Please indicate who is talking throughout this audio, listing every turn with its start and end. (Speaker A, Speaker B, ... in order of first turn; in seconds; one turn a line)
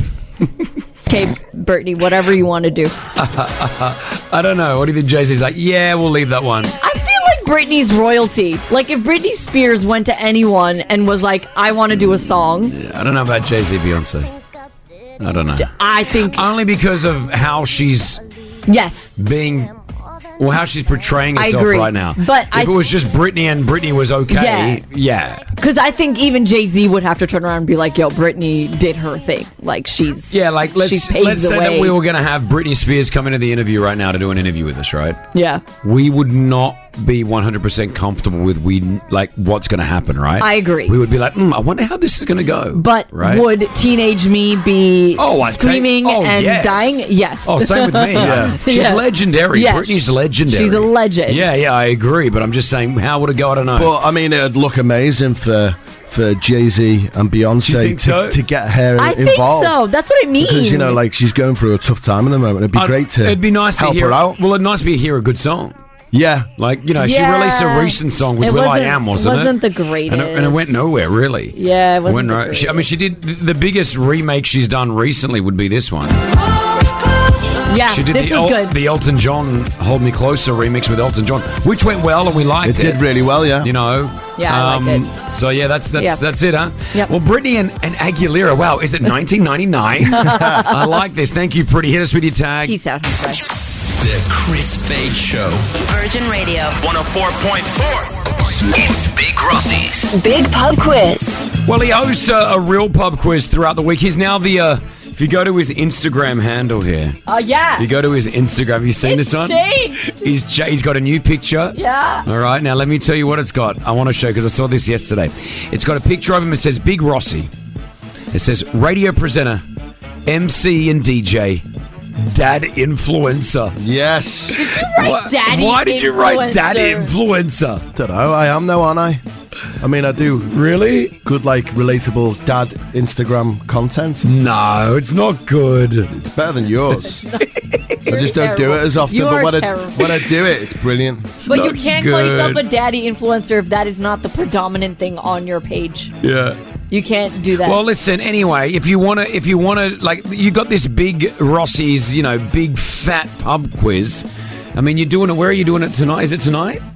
Speaker A: 1.1-3.0
Speaker B: 3.1-6.8
Speaker A: 6.8-12.8
Speaker B: 12.7-14.3
Speaker B: 15.2-18.2
Speaker A: 15.6-16.4
Speaker A: 18.7-19.1
Speaker B: 19.2-19.7
Speaker B: 20.4-25.5
Speaker A: 21.4-22.8
Speaker A: 24.3-24.9
Speaker A: 25.6-31.9
Speaker B: 30.3-35.2
Speaker A: 35.3-35.6
Speaker B: 35.8-43.5
Speaker A: 40.4-40.9
Speaker A: 42.7-51.5
Speaker B: 45.2-53.9
Speaker C: 48.1-48.6
Speaker C: 53.7-59.7
Speaker B: 57.6-58.4
Speaker A: 59.0-61.0
Speaker C: 60.4-64.4
Speaker B: 62.7-65.8
Speaker C: 66.1-66.5
Speaker B: 66.6-76.2
Speaker A: 67.0-70.7
Speaker A: 71.5-72.9
Speaker A: 77.7-78.7
Speaker B: 77.9-83.0
Speaker C: 82.6-83.7
Speaker B: 83.6-92.7
Speaker A: 84.4-85.1
Speaker A: 90.1-90.8
Speaker C: 90.2-90.7
Speaker A: 92.6-93.4
Speaker D: 94.0-95.7
Speaker E: 95.9-96.7
Speaker D: 96.9-98.0
Speaker D: 98.7-100.2
Speaker E: 100.1-101.4
Speaker B: 101.6-107.2
Speaker A: 107.3-107.9
Speaker B: 107.8-117.5
Speaker A: 109.0-110.3
Speaker A: 111.7-112.2
Speaker B: 118.3-119.6
Speaker B: 120.2-121.6
Speaker B: 122.2-123.7
Speaker C: 123.8-124.6
Speaker A: 124.5-127.1
Speaker B: 124.8-127.8
Speaker C: 127.9-129.2
Speaker C: 129.8-130.5
Speaker B: 130.5-131.2
Speaker C: 131.2-134.3
Speaker B: 134.2-136.1
Speaker C: 136.1-137.2
Speaker A: 137.1-140.0
Speaker C: 138.1-141.4
Speaker B: 141.4-142.6
Speaker A: 141.4-146.1
Speaker B: 146.2-146.6
Speaker A: 146.9-147.8
Speaker B: 147.6-156.8